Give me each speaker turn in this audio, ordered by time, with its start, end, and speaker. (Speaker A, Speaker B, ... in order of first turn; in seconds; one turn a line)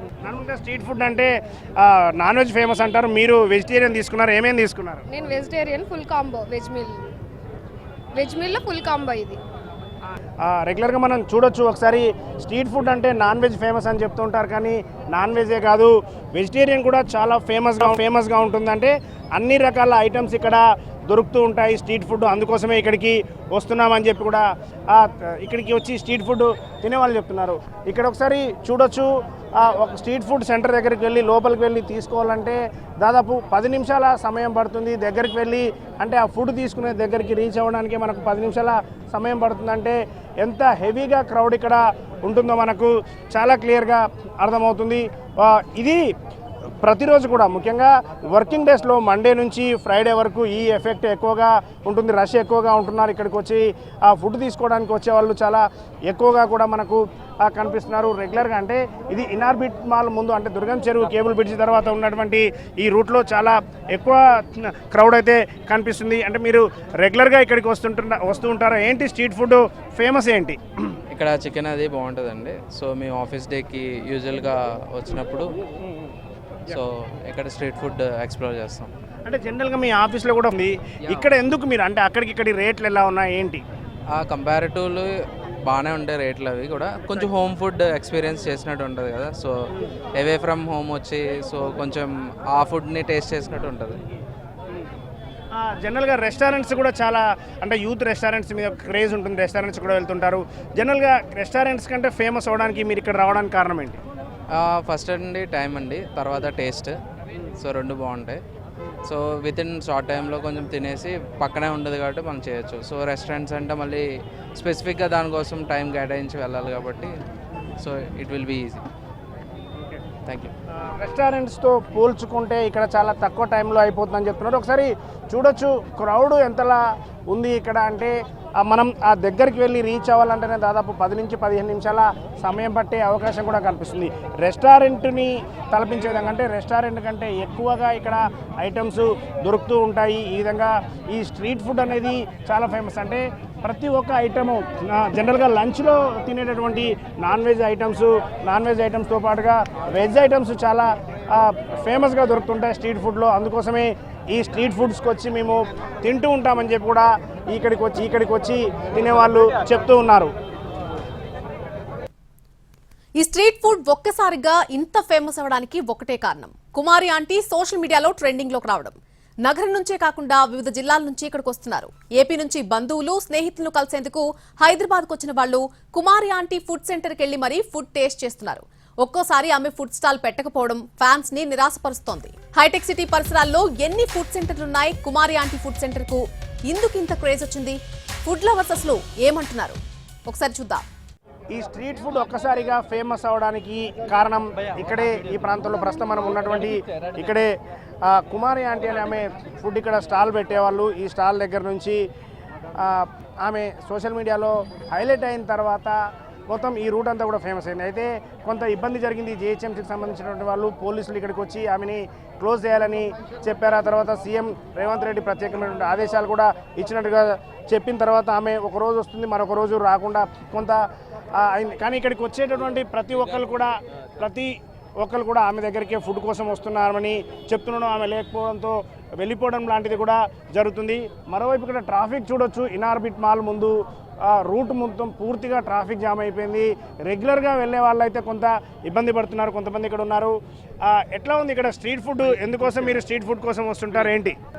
Speaker A: 0.2-5.1
Speaker B: 5.1-7.0
Speaker B: 8.2-9.4
Speaker A: 10.4-46.0
Speaker A: 46.8-70.6
Speaker C: 71.1-75.5
Speaker C: 76.7-78.9
Speaker A: 79.3-83.6
Speaker C: 84.1-85.1
Speaker C: 85.6-89.5
Speaker C: 90.2-94.0
Speaker A: 95.5-104.0
Speaker C: 104.5-107.0
Speaker C: 107.6-108.4
Speaker C: 109.1-114.0
Speaker C: 114.5-117.1
Speaker C: 117.8-118.8
Speaker C: 120.3-120.5
Speaker A: 121.0-126.8
Speaker A: 127.3-160.3
Speaker D: 163.2-190.8
Speaker A: 191.5-197.5
Speaker A: 198.1-202.0
Speaker A: 202.8-206.0
Speaker A: 206.5-220.8
Speaker A: 221.4-244.4